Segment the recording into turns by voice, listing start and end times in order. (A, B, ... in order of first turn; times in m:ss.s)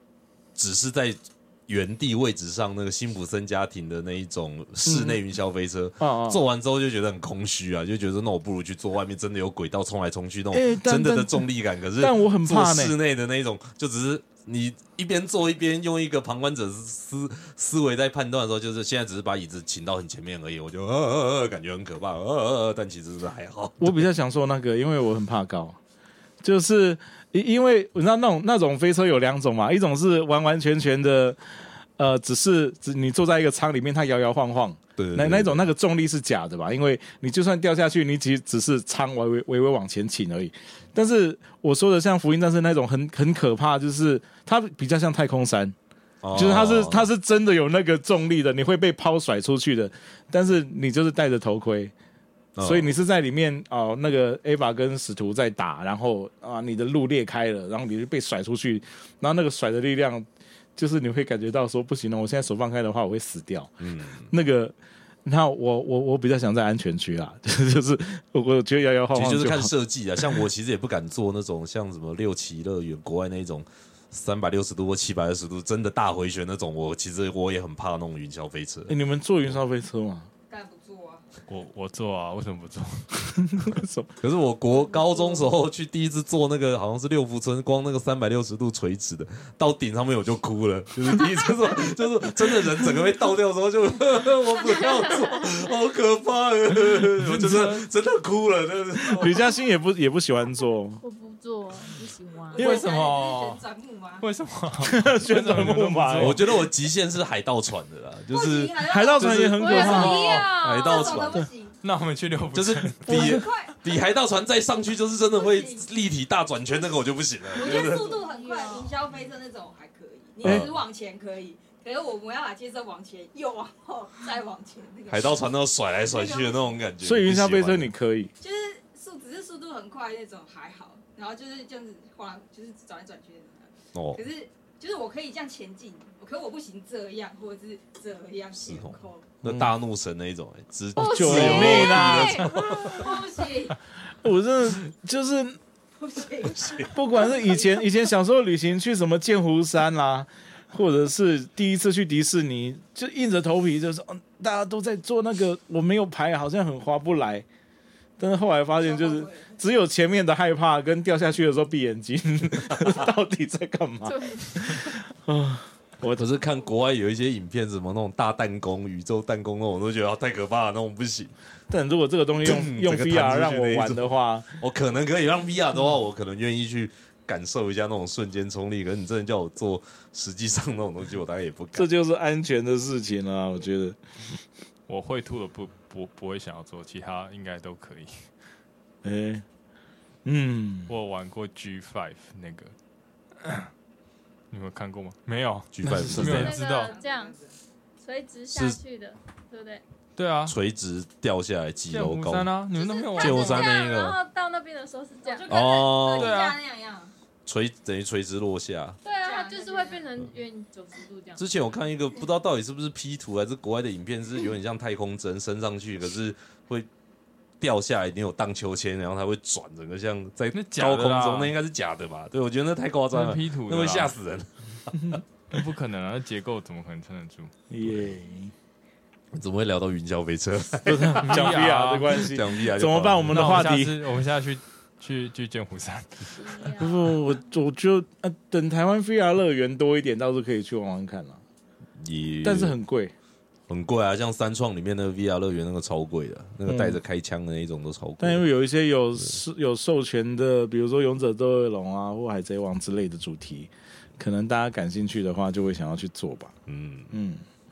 0:00.6-0:24.0 A
0:04.8-0:05.2 B
0:06.0-0:06.4 B
0:10.5-0:11.5 B
0:12.0-0:12.9 B
0:23.8-0:25.8 B
0:26.4-0:31.4 B
0:32.0-0:45.7 B
0:35.0-0:35.6 A
0:46.2-0:47.1 A
0:46.3-0:51.9 B
0:52.6-0:52.9 A
0:52.6-1:03.7 B
1:03.8-1:04.3 A
1:04.3-1:09.7 B
1:09.1-1:18.9 A
1:18.9-1:20.3 B
1:20.5-1:21.2 C
1:21.5-1:23.7 D
1:23.5-1:24.1 B
1:24.2-1:39.4 A
1:34.8-1:35.1 E
1:37.2-1:37.9 D
1:39.0-1:41.0 B
1:41.0-1:42.6 E
1:42.5-1:44.2 C
1:42.6-1:42.9 B
1:42.6-1:43.6 D
1:44.2-1:46.4 D
1:44.8-1:46.4 B
1:46.2-1:51.5 A
1:48.3-1:51.8 C
1:48.8-1:50.4 B
1:49.6-1:51.3 E
1:51.8-1:53.3 D
1:52.5-1:58.1 A
1:53.1-1:54.2 C
1:55.3-1:55.9 C
1:57.5-2:05.4 C
1:57.6-1:59.0 E
2:00.4-2:00.7 A
2:05.1-2:07.9 A
2:06.0-2:06.8 C
2:07.0-2:08.3 B
2:08.4-2:19.3 C
2:13.9-2:14.2 A
2:18.7-2:23.1 A
2:19.4-2:19.7 B
2:21.0-2:22.5 B
2:21.0-2:22.0 E
2:21.3-2:23.8 C
2:24.2-2:25.6 B
2:26.0-2:27.8 C
2:26.6-2:26.9 A
2:26.8-2:37.4 B
2:38.2-2:46.2 B
2:38.8-2:39.6 C
2:44.0-2:44.8 E
2:46.2-2:51.3 A
2:51.7-2:54.6 B
2:52.4-2:54.0 A
2:54.6-3:01.9 A
3:01.7-3:04.0 B
3:04.9-3:08.3 D
3:09.0-3:09.4 B
3:10.2-3:10.9 B
3:10.9-3:12.7 D
3:14.5-3:16.9 D
3:15.7-3:16.6 A
3:15.8-3:16.4 B
3:16.2-3:17.4 E
3:16.6-3:17.5 C
3:18.0-3:19.8 E
3:18.5-3:18.8 A
3:20.2-3:20.6 D
3:20.4-3:22.5 A
3:21.9-3:23.6 D
3:22.8-3:24.0 C
3:23.2-3:24.2 A
3:23.2-3:25.6 E
3:25.2-3:27.1 C
3:25.5-3:26.4 A
3:26.2-3:26.6 D
3:27.4-3:29.0 A
3:29.0-3:31.4 E
3:29.2-3:30.0 C
3:31.4-3:36.9 A
3:37.6-3:45.2 A
3:40.5-3:41.5 D
3:43.1-3:44.1 D
3:45.5-3:47.9 D
3:47.7-3:48.5 B
3:49.3-3:53.6 A
3:50.8-3:54.0 B
3:51.2-3:52.2 D
3:53.3-3:56.8 D
3:56.4-3:57.0 E
3:56.8-4:01.4 B
4:02.0-4:02.7 A
4:02.4-4:03.1 B
4:03.7-4:08.4 A
4:06.6-4:07.0 B
4:08.2-4:16.5 B
4:16.7-4:17.1 A
4:17.1-4:17.4 B